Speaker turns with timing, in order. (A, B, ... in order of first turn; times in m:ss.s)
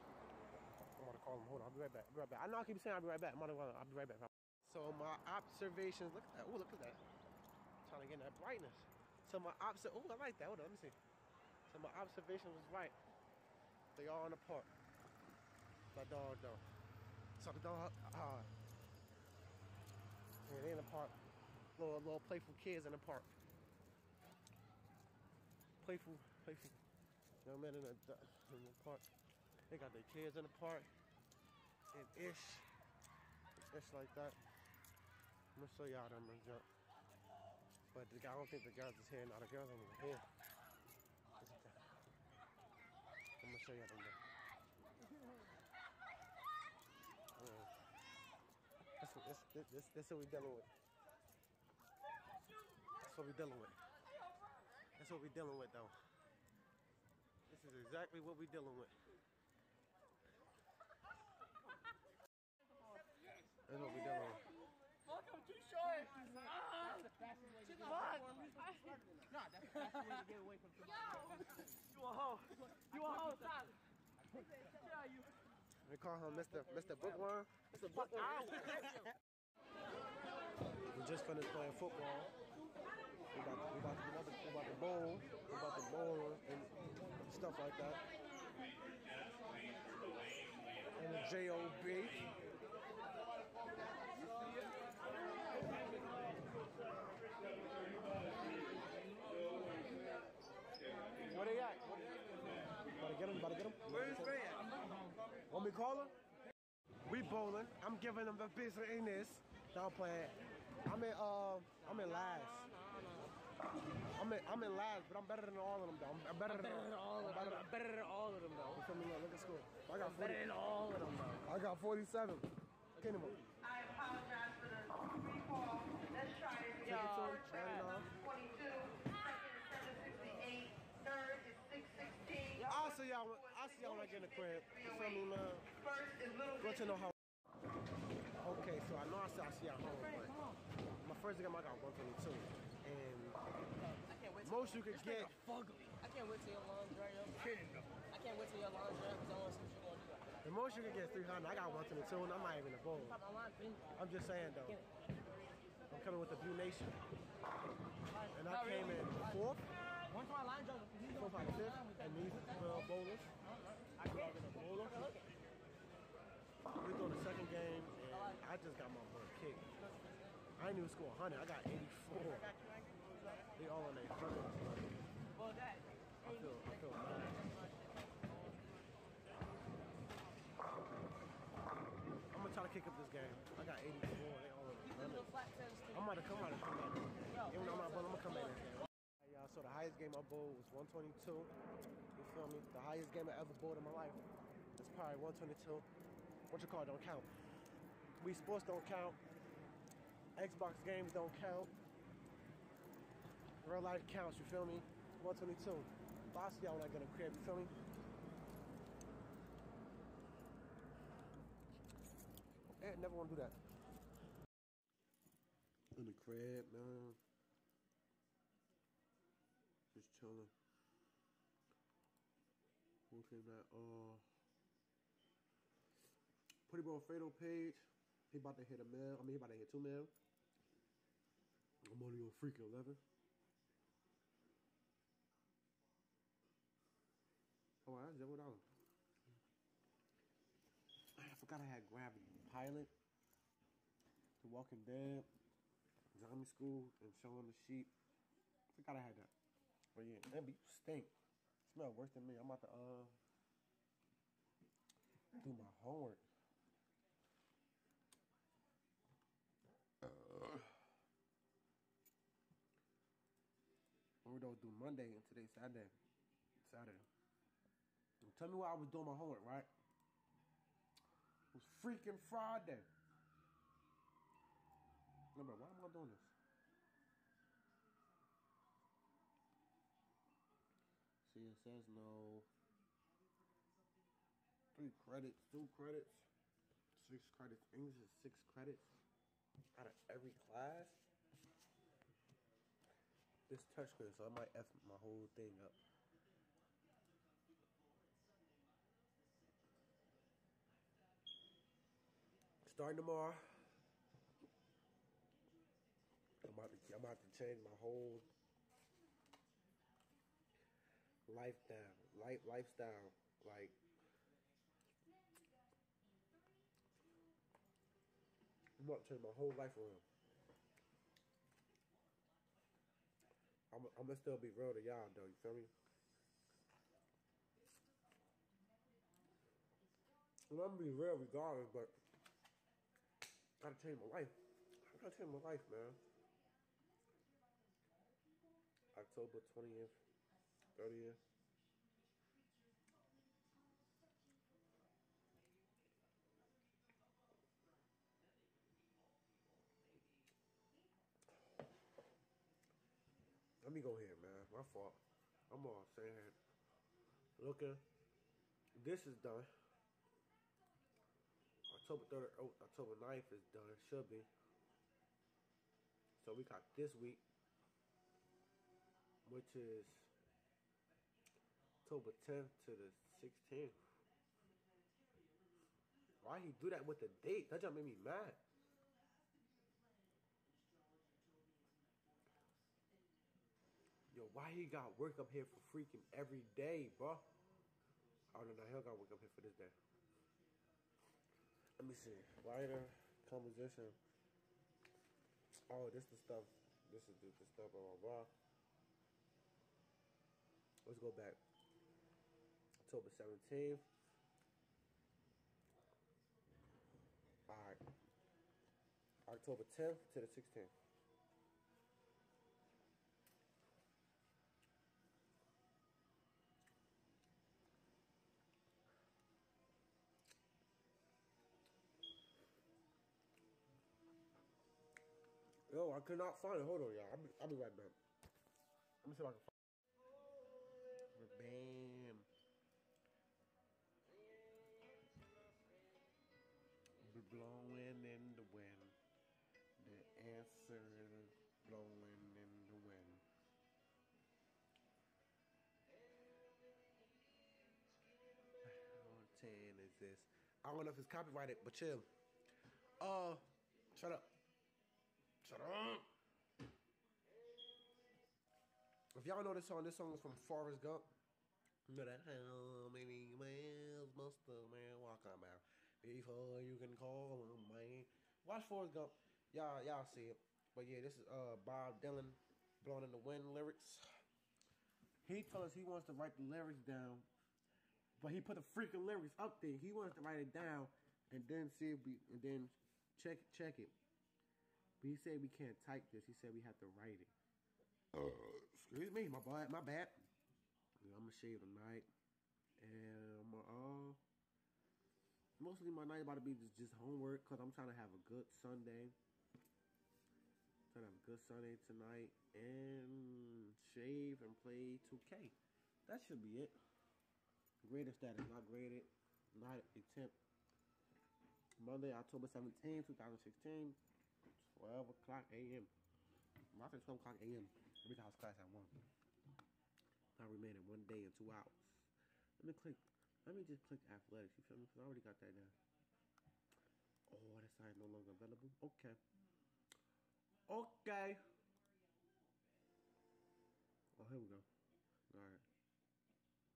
0:01.0-0:07.0 A
0:07.8-0:11.0 A
0:11.7-0:13.0 A
0:14.0-0:14.7 A
0:15.9-0:16.6 A
0:17.4-0:18.5 A
0:20.4-0:21.2 A
0:21.8-0:23.3 A
0:25.8-0:26.8 A
0:27.4-0:29.1 A
0:29.7-0:30.9 A
0:31.9-0:32.7 A
0:33.6-0:34.4 A
0:35.6-0:36.7 A
0:37.9-0:40.2 A
0:41.4-0:41.8 A
0:43.4-0:44.2 A
0:47.4-0:47.7 A
0:49.0-0:50.7 A
0:53.0-0:53.8 A
0:55.0-0:56.0 A
0:57.5-0:59.0 A
1:03.7-1:04.5 A
1:05.0-1:13.8 B
1:15.8-1:19.1 A
1:18.5-1:19.0 B
1:20.9-1:22.3 A
1:23.3-1:26.7 A
1:27.2-1:28.0 A
1:31.0-1:32.3 A
1:41.3-1:42.1 A
1:43.0-1:44.7 A
1:45.5-1:46.2 A
1:47.0-1:52.7 A
1:52.3-1:53.3 B
1:54.2-1:57.7 A
1:56.6-1:58.8 B
1:58.7-2:00.5 A
2:00.0-2:01.4 B
2:01.4-2:03.5 A
2:03.3-2:05.6 B
2:04.1-2:04.9 C
2:05.4-2:05.8 C
2:06.3-2:06.6 C
2:06.6-2:07.9 B
2:06.8-2:08.3 A
2:08.8-2:10.7 B
2:09.9-2:10.2 C
2:11.2-2:12.1 C
2:12.6-2:17.2 A
2:18.4-2:20.4 A
2:21.0-2:23.4 A
2:24.0-2:30.4 B
2:24.4-2:25.4 A
2:30.4-2:33.2 A
2:33.1-2:34.0 B
2:34.0-2:34.8 A
2:35.9-2:37.0 A
2:38.2-2:39.4 B
2:38.3-2:39.7 A
2:40.1-2:42.6 B
2:41.1-2:43.3 A
2:43.8-2:45.4 B
2:46.8-2:49.9 A
2:48.1-2:48.4 B
2:49.9-2:50.4 B
2:50.6-2:52.6 A
2:52.3-2:53.5 B
2:53.6-2:55.0 A
2:55.4-2:59.3 B
2:56.2-2:57.4 A
3:02.3-3:05.4 A
3:04.9-3:06.3 B
3:05.9-3:11.5 A
3:07.3-3:08.7 B
3:12.2-3:14.2 A
3:14.8-3:15.9 A
3:16.5-3:17.3 A
3:18.2-3:19.2 A
3:20.4-3:21.7 A
3:23.6-3:27.7 A
3:32.6-3:33.6 A
3:36.0-3:37.2 A
3:39.9-3:40.5 A
3:43.1-3:44.2 A
3:46.7-3:50.1 A
3:51.8-3:53.0 A
3:57.8-3:58.7 A
4:01.2-4:02.9 A
4:04.4-4:05.3 A
4:06.1-4:07.9 A
4:08.7-4:09.3 A
4:09.9-4:11.1 A
4:11.6-4:13.2 A
4:15.4-4:16.2 A
4:20.0-4:20.8 A
4:24.2-4:26.0 A
4:26.6-4:27.1 A
4:28.2-4:29.7 A
4:31.5-4:32.9 A
4:35.4-4:36.3 A
4:41.2-4:42.5 A
4:44.8-4:46.3 A
4:47.0-4:49.0 A
4:49.8-4:51.0 A
4:53.5-4:55.8 A
5:02.6-5:03.7 A
5:06.4-5:08.3 A
5:11.3-5:13.8 A
5:18.8-5:20.0 A
5:23.7-5:25.7 A
5:30.5-5:32.0 A
5:33.6-5:36.0 A
5:38.9-5:40.0 A
5:40.7-5:41.2 A
5:53.6-5:56.4 A
5:57.4-5:57.8 A
5:58.8-5:59.5 A
6:01.7-6:04.3 A
6:06.2-6:07.2 A
6:09.2-6:10.1 A
6:11.8-6:13.8 A
6:16.2-6:18.4 A
6:24.1-6:27.3 A
6:28.3-6:29.8 A
6:31.8-6:34.0 A
6:35.7-6:38.3 A
6:40.8-6:41.4 A
6:42.8-6:43.9 A
6:47.5-6:47.8 A
6:49.3-6:50.7 A
7:05.7-7:08.0 A
7:09.0-7:09.5 A
7:11.1-7:12.3 A
7:17.0-7:19.0 A
7:19.8-7:23.2 A
7:28.6-7:32.1 A
7:33.0-7:34.4 A
7:35.4-7:36.1 A
7:39.2-7:41.1 A
7:41.9-7:54.1 A
7:55.2-7:57.3 A
7:58.2-8:04.0 A
8:05.0-8:07.3 A
8:08.2-8:10.3 A
8:11.0-8:12.1 A
8:12.8-8:14.2 A
8:15.6-8:19.2 A
8:20.9-8:26.8 A
8:27.8-8:30.4 A
8:31.8-8:34.0 A
8:34.6-8:35.9 A
8:36.7-8:39.0 A
8:40.4-8:45.8 A
8:47.3-8:49.2 A
8:50.7-8:51.4 A
8:54.2-8:54.7 A
8:55.3-8:55.6 A